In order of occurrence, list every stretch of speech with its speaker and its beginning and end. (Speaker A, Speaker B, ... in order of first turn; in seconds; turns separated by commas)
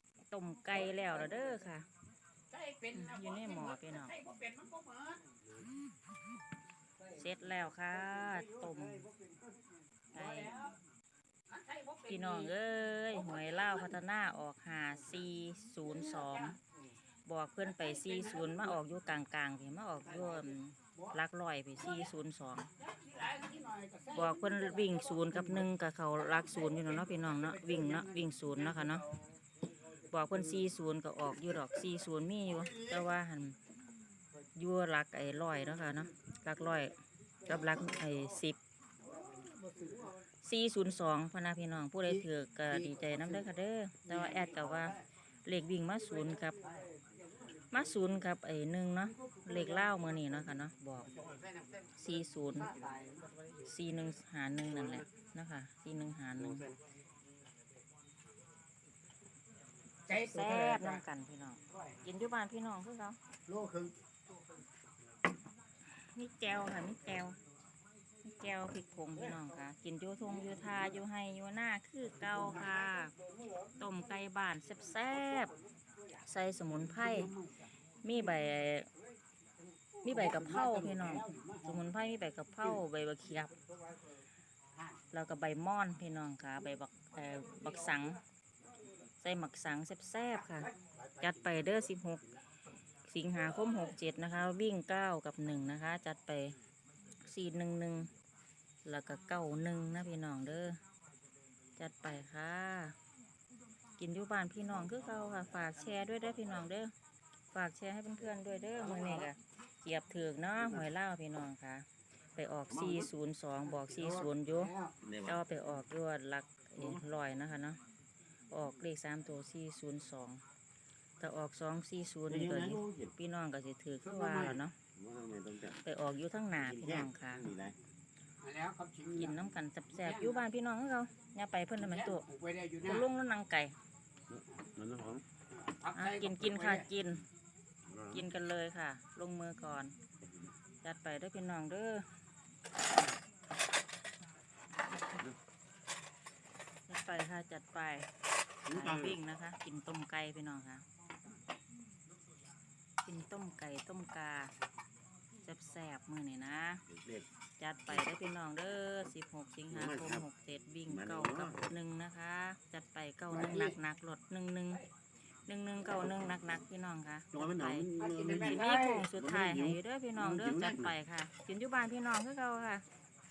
Speaker A: 0.3-1.9, Speaker B: 0.8-1.5, Speaker B: 2.5-5.2, Speaker A: 2.9-4.1, Speaker B: 7.0-7.3, Speaker A: 7.1-9.1, Speaker B: 8.0-10.8, Speaker A: 10.1-10.6, Speaker B: 11.5-12.6, Speaker A: 12.1-16.6, Speaker B: 13.1-14.0, Speaker B: 15.8-16.6, Speaker A: 17.3-22.7, Speaker B: 17.6-18.8, Speaker B: 20.0-21.2, Speaker B: 21.8-22.1, Speaker B: 22.8-29.5, Speaker A: 24.1-29.0, Speaker A: 30.1-33.6, Speaker B: 30.3-30.6, Speaker B: 31.3-31.8, Speaker B: 32.5-33.1, Speaker A: 34.6-36.9, Speaker B: 37.5-38.4, Speaker A: 37.5-38.6, Speaker B: 39.1-40.1, Speaker A: 40.4-46.6, Speaker B: 42.0-43.5, Speaker B: 44.1-45.0, Speaker B: 46.1-47.0, Speaker A: 47.7-51.1, Speaker B: 49.2-50.3, Speaker C: 51.1-52.0, Speaker A: 52.0-52.7, Speaker B: 52.5-53.3, Speaker A: 53.6-56.7, Speaker C: 54.7-55.0, Speaker C: 56.4-56.8, Speaker B: 60.1-61.0, Speaker A: 60.1-63.2, Speaker B: 61.7-62.0, Speaker B: 63.5-63.9, Speaker A: 66.1-67.4, Speaker A: 68.2-73.1, Speaker B: 69.2-69.5, Speaker B: 70.3-71.0, Speaker B: 72.2-72.9, Speaker B: 73.4-73.8, Speaker A: 73.8-75.5, Speaker A: 76.3-77.3, Speaker B: 76.7-77.7, Speaker A: 78.0-78.9, Speaker B: 80.0-81.9, Speaker A: 80.0-83.5, Speaker B: 84.8-85.0, Speaker A: 85.1-88.2, Speaker B: 87.5-88.0, Speaker A: 89.2-90.7, Speaker B: 90.4-92.4, Speaker A: 91.2-92.2, Speaker A: 93.1-96.5, Speaker A: 97.2-98.1, Speaker A: 98.8-100.8, Speaker A: 101.8-103.0, Speaker A: 104.0-106.9, Speaker C: 104.8-106.7, Speaker A: 107.5-114.7, Speaker B: 108.8-109.3, Speaker C: 108.8-109.2, Speaker C: 112.7-113.1, Speaker B: 113.6-115.0, Speaker C: 115.0-115.4, Speaker A: 115.2-117.8, Speaker C: 116.8-117.0, Speaker A: 118.5-120.4, Speaker A: 121.2-124.8, Speaker C: 122.3-123.1, Speaker B: 124.0-124.6, Speaker C: 125.0-125.8, Speaker A: 125.8-127.5, Speaker C: 126.6-127.8, Speaker B: 128.4-129.4, Speaker A: 129.2-132.3, Speaker B: 130.0-130.4, Speaker B: 131.8-133.1, Speaker A: 132.8-133.7, Speaker C: 134.3-135.2, Speaker B: 135.5-136.9, Speaker A: 135.9-137.2, Speaker C: 137.9-138.2, Speaker A: 138.1-139.9, Speaker C: 140.2-140.5, Speaker A: 140.8-142.1, Speaker A: 146.9-148.1, Speaker C: 148.7-149.2, Speaker A: 148.7-150.8, Speaker A: 153.1-154.5, Speaker A: 155.4-156.8, Speaker C: 156.9-157.3, Speaker A: 157.6-164.8, Speaker C: 159.7-160.3, Speaker C: 160.9-161.7, Speaker C: 163.3-163.8, Speaker B: 163.3-163.7, Speaker A: 165.5-172.8, Speaker C: 167.3-171.0, Speaker B: 168.0-169.1